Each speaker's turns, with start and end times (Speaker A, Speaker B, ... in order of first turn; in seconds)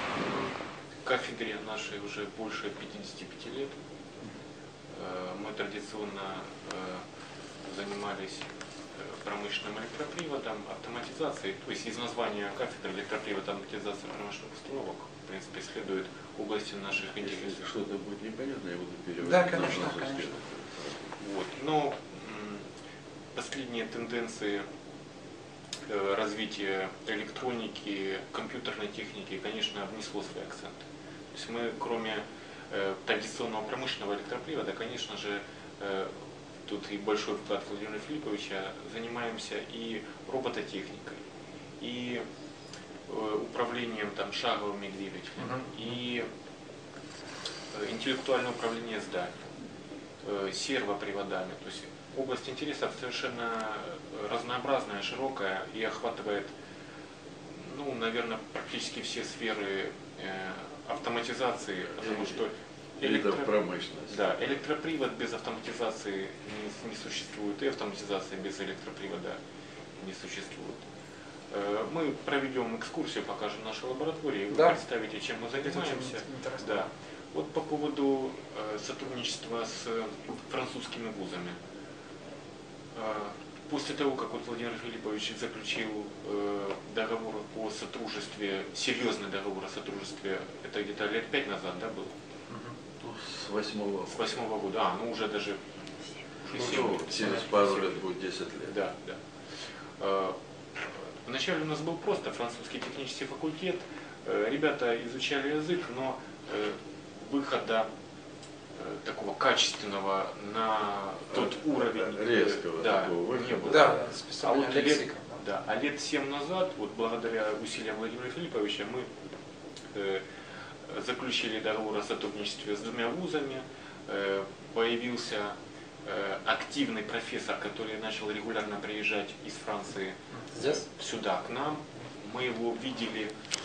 Speaker A: 1.0-3.7, 4.9-7.0, 7.6-17.6, 21.1-22.6, 23.3-24.6, 25.9-41.2, 41.8-42.2, 43.1-46.3, 47.7-49.3, 50.2-56.5, 57.5-63.5, 64.1-69.4, 70.0-70.8, 71.5-81.6, 82.9-92.1, 94.1-95.6, 96.4-98.0, 98.6-99.2, 100.0-107.9, 108.8-119.1, 119.9-120.2, 120.8-133.3
Speaker B: 17.2-21.1, 62.0-62.5, 63.0-64.3, 93.0-94.3, 96.5-98.7, 111.3-114.1
Speaker C: 19.2-20.4, 45.4-45.9, 74.5-74.8, 75.5-76.9, 92.5-92.8, 113.6-115.4, 130.3-130.8